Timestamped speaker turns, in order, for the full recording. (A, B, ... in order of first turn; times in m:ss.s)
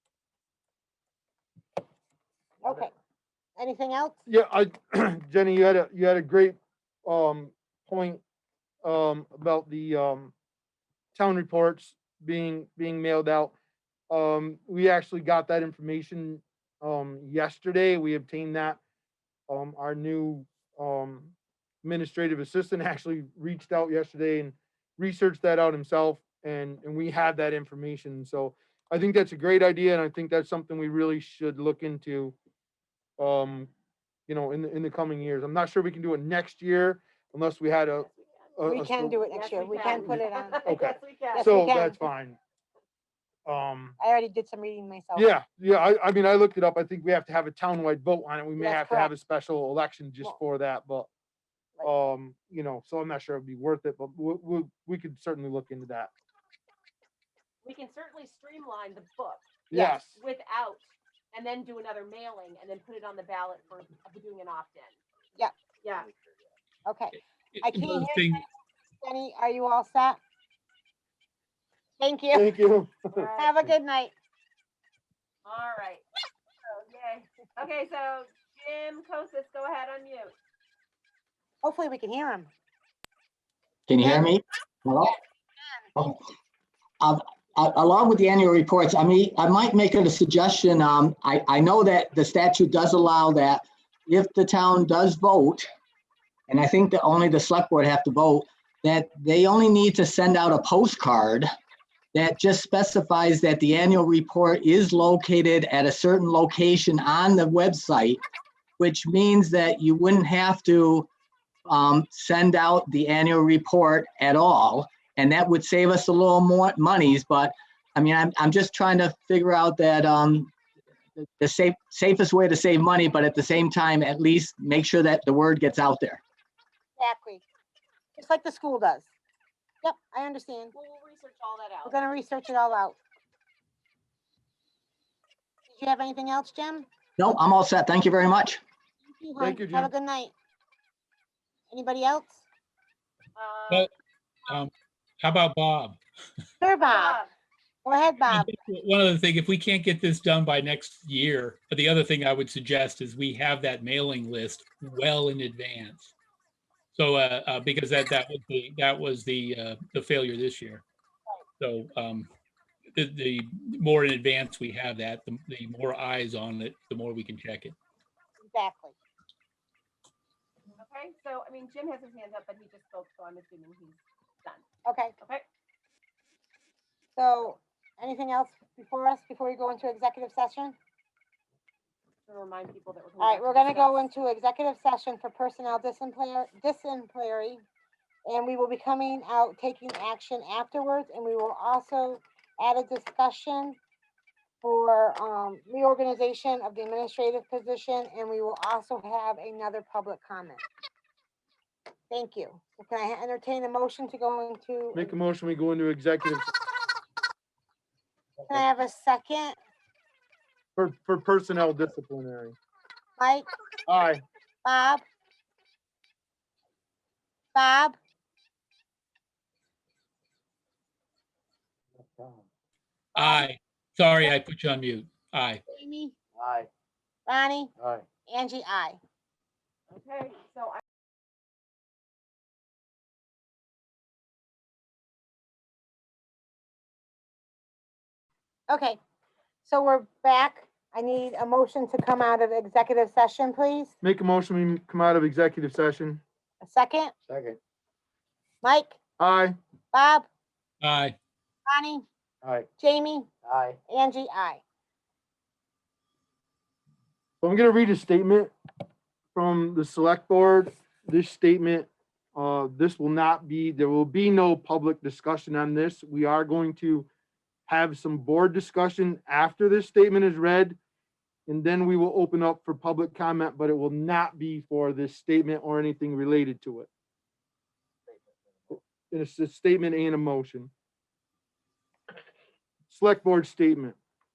0:02.6-0:02.9 A
0:03.6-0:04.2 A
0:04.3-0:08.2 B
0:08.8-0:10.3 B
0:11.1-0:13.6 B
0:14.1-0:18.8 B
0:19.5-0:32.4 B
0:33.2-0:33.7 B
0:34.3-0:39.2 B
0:38.0-0:38.4 C
0:38.6-0:40.6 A
0:39.3-0:41.7 C
0:39.9-0:42.4 B
0:41.3-0:42.0 A
0:43.5-0:44.0 B
0:44.0-0:45.3 A
0:45.2-0:51.1 B
0:48.6-0:49.1 A
0:51.8-0:56.1 B
0:57.6-0:59.5 C
0:59.7-1:00.0 A
0:59.7-1:00.2 B
1:00.1-1:05.0 C
1:05.8-1:06.1 C
1:06.9-1:08.5 A
1:07.5-1:08.4 D
1:09.0-1:10.2 A
1:12.0-1:12.6 A
1:12.4-1:13.2 B
1:13.1-1:13.6 C
1:13.4-1:14.1 A
1:15.4-1:16.0 C
1:16.9-1:20.3 C
1:21.6-1:22.5 A
1:23.9-1:25.2 E
1:24.0-1:24.3 A
1:25.6-1:26.2 A
1:27.0-1:35.7 E
1:36.5-1:41.5 E
1:42.1-1:48.2 E
1:48.8-1:51.1 E
1:51.7-2:00.5 E
2:01.2-2:06.2 E
2:07.0-2:07.4 A
2:08.2-2:09.1 A
2:09.8-2:10.7 A
2:10.7-2:12.0 C
2:11.9-2:13.0 A
2:15.7-2:16.9 A
2:17.2-2:18.6 E
2:19.0-2:20.3 A
2:19.4-2:19.9 B
2:21.7-2:22.4 A
2:23.4-2:23.9 C
2:25.2-2:26.0 D
2:26.6-2:27.2 A
2:26.9-2:27.3 C
2:27.8-2:28.5 A
2:28.3-2:36.1 D
2:37.0-2:40.8 D
2:41.6-2:42.3 D
2:43.0-2:47.8 D
2:48.4-2:48.9 A
2:50.8-2:54.6 C
2:54.8-2:55.2 A
2:57.2-3:00.8 A
3:02.3-3:04.0 C
3:03.2-3:07.6 A
3:08.3-3:13.8 A
3:14.6-3:20.6 A
3:22.1-3:25.2 A
3:25.0-3:26.5 B
3:28.5-3:29.6 A
3:30.8-3:32.6 B
3:33.2-3:33.5 A
3:33.9-3:34.2 B
3:34.6-3:35.0 A
3:37.6-3:38.0 A
3:43.2-3:45.6 D
3:43.2-3:43.5 A
3:45.7-3:46.2 A
3:47.3-3:47.7 A
3:48.3-3:49.0 A
3:49.9-3:50.8 C
3:58.7-3:59.0 A
3:59.6-4:04.0 A
4:04.0-4:06.2 B
4:06.6-4:07.2 A
4:07.3-4:07.6 B
4:08.6-4:09.0 A
4:09.2-4:09.6 B
4:09.9-4:10.3 A
4:10.8-4:11.2 D
4:11.7-4:12.0 A
4:12.8-4:13.3 A
4:13.9-4:14.6 A
4:17.4-4:18.5 B
4:19.4-4:27.1 B
4:27.7-4:30.8 B
4:31.5-4:36.9 B
4:38.7-4:40.7 B
4:42.9-4:44.0 B